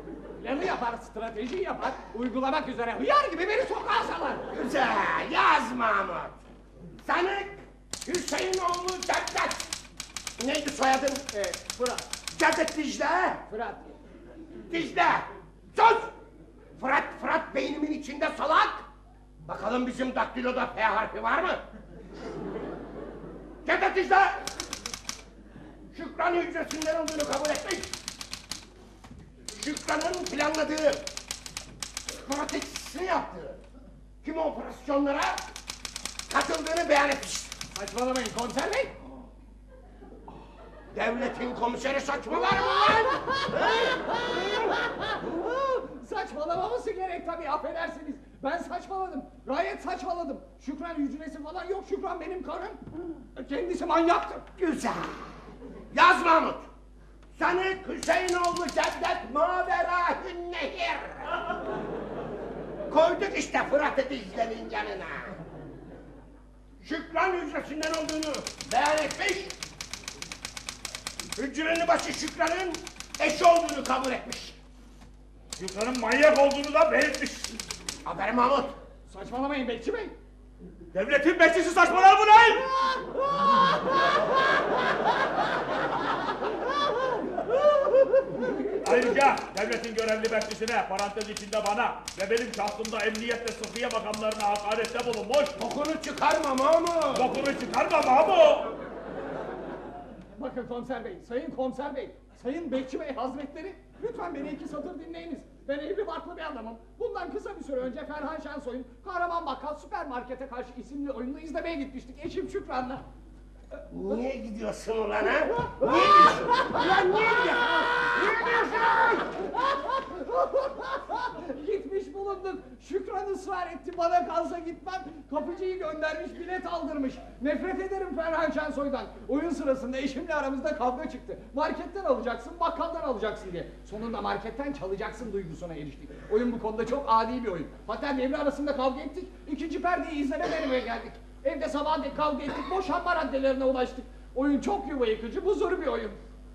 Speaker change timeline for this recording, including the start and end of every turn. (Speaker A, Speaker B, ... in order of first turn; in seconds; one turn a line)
Speaker A: 0.4-4.5
Speaker B: 4.5-6.4
Speaker B: 7.0-9.7
Speaker B: 10.4-13.4
Speaker A: 13.5-13.9
Speaker B: 14.7-16.1
Speaker B: 16.8-18.9
Speaker B: 19.4-21.6
Speaker B: 23.6-24.4
Speaker B: 25.9-27.9
Speaker B: 29.5-31.0
Speaker B: 32.1-33.6
Speaker B: 34.2-35.4
Speaker B: 36.3-37.5
Speaker A: 37.7-38.9
Speaker B: 40.9-43.5
Speaker A: 42.5-54.5
Speaker B: 54.6-55.4
Speaker B: 55.9-56.7
Speaker B: 57.4-61.4
Speaker B: 62.9-65.4
Speaker B: 66.8-69.5
Speaker B: 71.3-74.6
Speaker C: 75.6-77.6
Speaker B: 78.0-78.8
Speaker A: 79.1-80.1
Speaker C: 80.9-82.7
Speaker C: 88.8-95.5
Speaker B: 95.6-97.4
Speaker C: 97.1-98.7
Speaker A: 100.4-113.0
Speaker B: 113.9-118.7
Speaker A: 116.6-146.2